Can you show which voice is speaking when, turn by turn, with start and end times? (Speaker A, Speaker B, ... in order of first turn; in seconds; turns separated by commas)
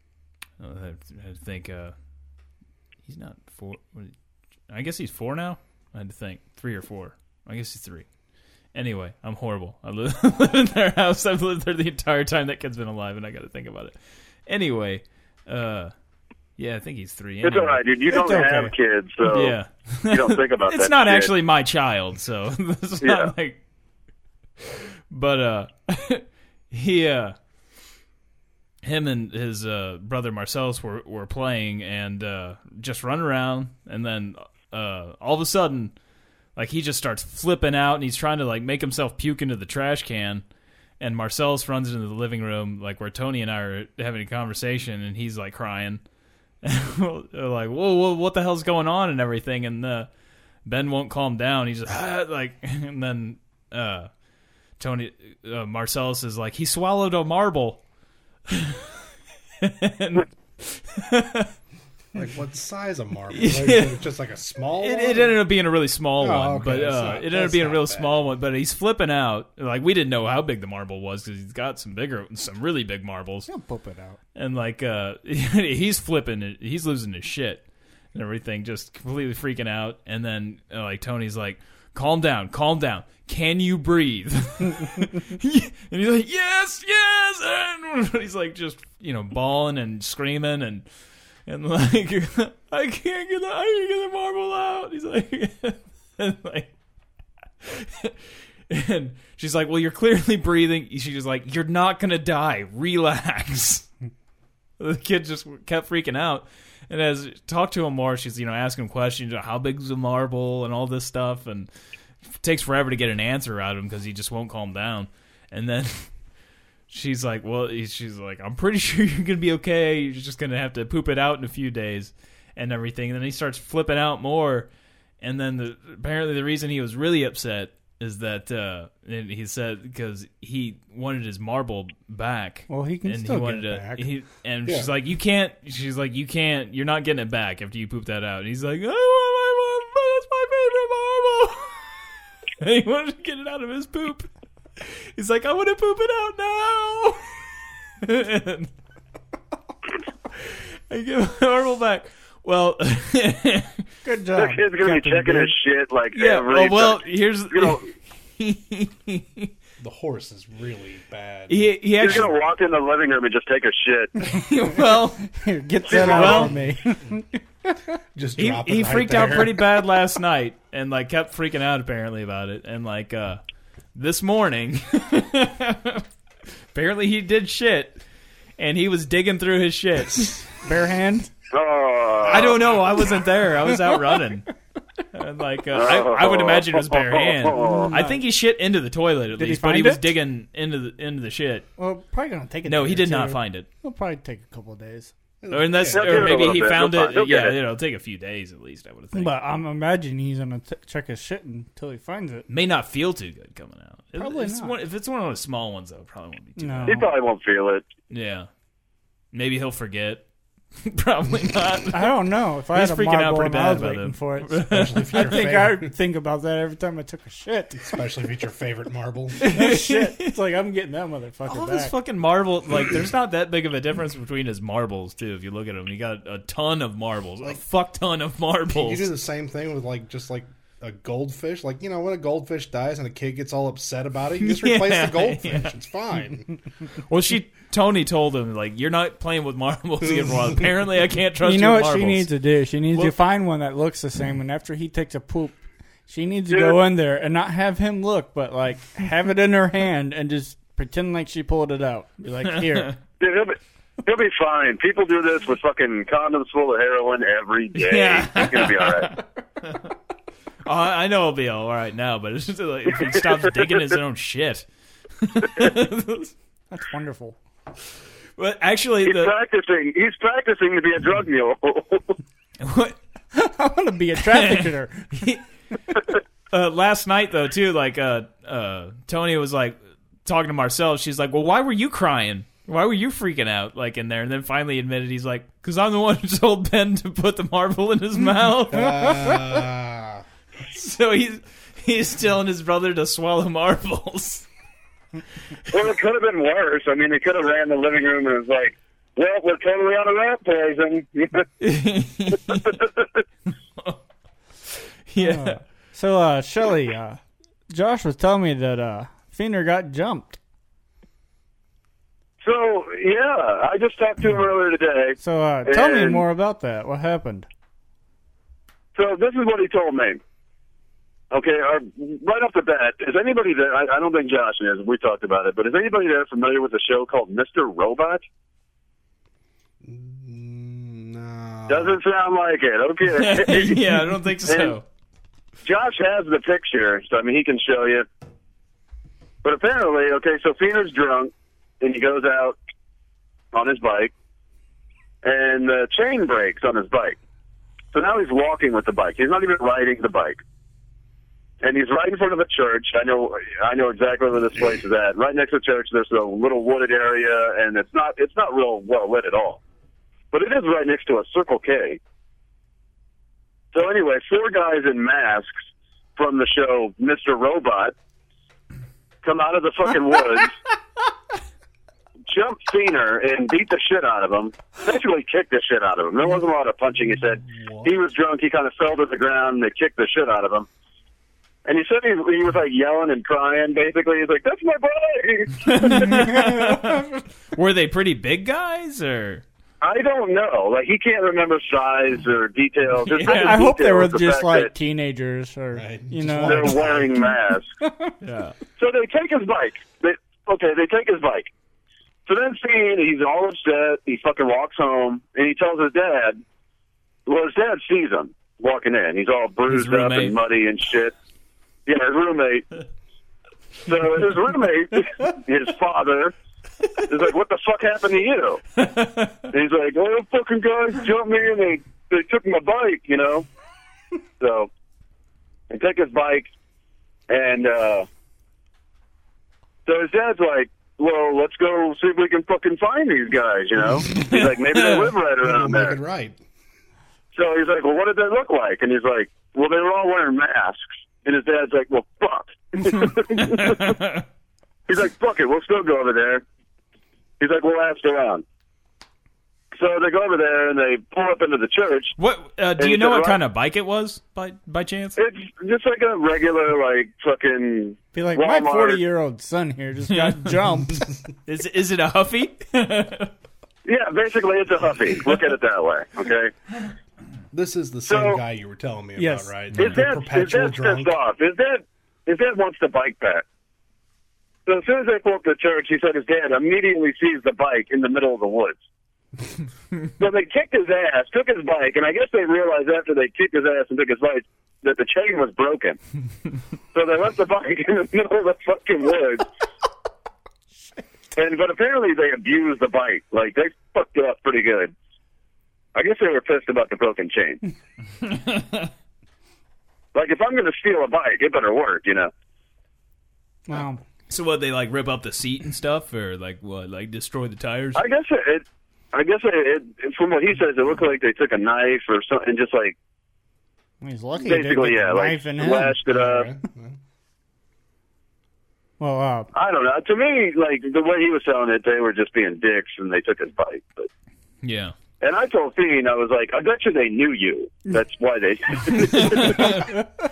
Speaker A: 0.6-1.9, Speaker A: 3.0-4.1, Speaker A: 4.7-8.1, Speaker A: 8.7-15.9, Speaker A: 16.6-17.8, Speaker B: 17.4-19.6, Speaker C: 18.1-18.7, Speaker A: 19.2-23.6, Speaker B: 20.1-21.3, Speaker B: 23.0-23.3, Speaker A: 24.7-27.4, Speaker A: 28.8-35.9, Speaker A: 36.6-40.4, Speaker A: 41.0-46.0, Speaker A: 46.6-50.1, Speaker A: 50.6-54.1, Speaker A: 54.8-57.8, Speaker A: 58.5-58.9, Speaker A: 59.6-61.5, Speaker D: 62.1-65.5, Speaker A: 63.3-64.1, Speaker A: 64.8-73.5, Speaker D: 66.2-68.2, Speaker C: 73.5-74.2, Speaker A: 74.3-90.9, Speaker A: 91.5-96.7, Speaker A: 97.6-98.2, Speaker A: 98.7-103.9, Speaker A: 104.8-111.7, Speaker A: 112.4-116.1, Speaker A: 116.9-124.7, Speaker A: 125.2-141.9, Speaker C: 132.7-134.1, Speaker D: 134.7-134.9, Speaker A: 142.6-147.4, Speaker A: 148.0-148.7, Speaker A: 150.3-153.8, Speaker C: 154.0-155.6, Speaker B: 154.4-157.8, Speaker A: 156.1-159.5, Speaker D: 159.8-162.3, Speaker A: 161.5-162.3, Speaker B: 162.0-164.2, Speaker A: 164.2-165.3, Speaker C: 165.3-167.7, Speaker B: 165.9-166.2, Speaker D: 165.9-166.7, Speaker A: 166.0-166.5, Speaker D: 168.2-169.7, Speaker A: 168.4-173.4, Speaker A: 173.9-176.1, Speaker A: 176.7-178.0, Speaker A: 178.6-180.4, Speaker C: 180.6-181.3, Speaker B: 181.5-182.7, Speaker A: 182.2-184.5, Speaker D: 182.3-182.7, Speaker A: 185.1-191.7, Speaker B: 185.7-187.9, Speaker C: 187.7-188.2, Speaker C: 189.4-190.1, Speaker C: 191.8-195.1, Speaker A: 192.7-193.7, Speaker D: 195.4-196.7, Speaker A: 195.5-199.3, Speaker B: 195.9-197.6, Speaker C: 199.1-202.5, Speaker A: 202.5-207.1, Speaker C: 204.2-204.8, Speaker C: 206.6-207.1, Speaker B: 206.9-207.8, Speaker A: 208.1-208.5, Speaker A: 209.3-210.2, Speaker A: 210.8-212.2, Speaker C: 211.9-218.0, Speaker A: 212.7-215.5, Speaker D: 214.7-215.9, Speaker D: 217.8-219.4, Speaker C: 219.4-221.9, Speaker A: 219.4-220.3, Speaker A: 221.5-229.1, Speaker D: 228.7-236.5, Speaker A: 234.4-235.7, Speaker A: 237.1-242.3, Speaker D: 240.1-240.6, Speaker C: 241.4-252.9, Speaker B: 246.5-246.8, Speaker A: 252.5-253.0, Speaker B: 253.2-259.1, Speaker A: 257.8-259.9, Speaker A: 260.6-264.7, Speaker B: 263.1-263.4, Speaker A: 265.2-266.3, Speaker C: 266.7-267.4, Speaker A: 268.4-269.3, Speaker B: 269.1-272.2, Speaker A: 272.6-273.0, Speaker C: 273.3-275.3, Speaker A: 274.2-275.4, Speaker A: 276.5-289.5, Speaker D: 288.7-290.2, Speaker A: 290.6-294.5, Speaker B: 295.7-301.5, Speaker A: 301.6-302.8, Speaker B: 302.5-303.2, Speaker A: 305.1-305.6, Speaker C: 305.2-310.4, Speaker B: 312.4-316.2, Speaker C: 315.2-317.5, Speaker B: 318.9-320.2, Speaker B: 321.3-328.2, Speaker D: 329.8-332.0, Speaker B: 331.7-334.8, Speaker A: 333.1-334.8, Speaker B: 335.6-338.1, Speaker B: 339.4-342.6, Speaker B: 343.5-344.1, Speaker B: 345.2-347.2, Speaker B: 347.9-350.4, Speaker B: 351.6-359.6, Speaker B: 360.3-362.0, Speaker B: 363.7-365.5, Speaker B: 366.2-367.9, Speaker B: 369.2-370.6, Speaker B: 372.3-380.7, Speaker D: 377.3-377.9, Speaker B: 381.6-386.3, Speaker A: 385.6-389.4, Speaker C: 385.9-387.1, Speaker B: 389.8-394.7, Speaker A: 393.0-393.7, Speaker C: 393.3-396.8, Speaker D: 395.7-397.3, Speaker B: 396.4-397.7, Speaker C: 397.8-398.1, Speaker A: 398.2-398.6, Speaker B: 398.8-401.5, Speaker B: 402.3-406.4, Speaker B: 407.3-411.1, Speaker A: 409.7-410.4, Speaker B: 411.9-412.8, Speaker B: 413.9-416.3, Speaker B: 417.0-418.6, Speaker A: 418.8-419.5, Speaker B: 419.5-423.5, Speaker B: 424.4-424.7, Speaker B: 425.7-426.5, Speaker B: 427.3-428.1, Speaker B: 429.9-436.0, Speaker A: 434.1-435.1, Speaker D: 435.4-436.4, Speaker B: 437.3-444.0, Speaker A: 443.4-444.2, Speaker B: 444.9-446.4, Speaker B: 447.4-448.4, Speaker B: 449.7-452.2, Speaker A: 452.2-455.2, Speaker B: 452.8-453.4, Speaker B: 455.2-459.0, Speaker C: 458.1-461.2, Speaker A: 460.1-460.5, Speaker A: 461.5-463.3, Speaker B: 463.9-466.5, Speaker D: 467.5-471.1, Speaker B: 468.1-468.4, Speaker C: 469.2-469.5, Speaker B: 469.8-473.4, Speaker B: 474.7-478.8, Speaker B: 480.2-486.0, Speaker B: 486.9-489.5, Speaker B: 491.4-494.9, Speaker B: 495.9-497.6, Speaker A: 498.2-498.9, Speaker B: 500.1-502.3, Speaker C: 503.7-504.0, Speaker A: 504.3-508.0, Speaker B: 507.9-513.0, Speaker C: 514.0-516.0, Speaker B: 514.4-516.5, Speaker D: 516.1-517.0, Speaker C: 519.0-519.5, Speaker B: 519.5-524.1, Speaker A: 524.6-525.0, Speaker B: 525.2-529.9, Speaker A: 528.9-530.0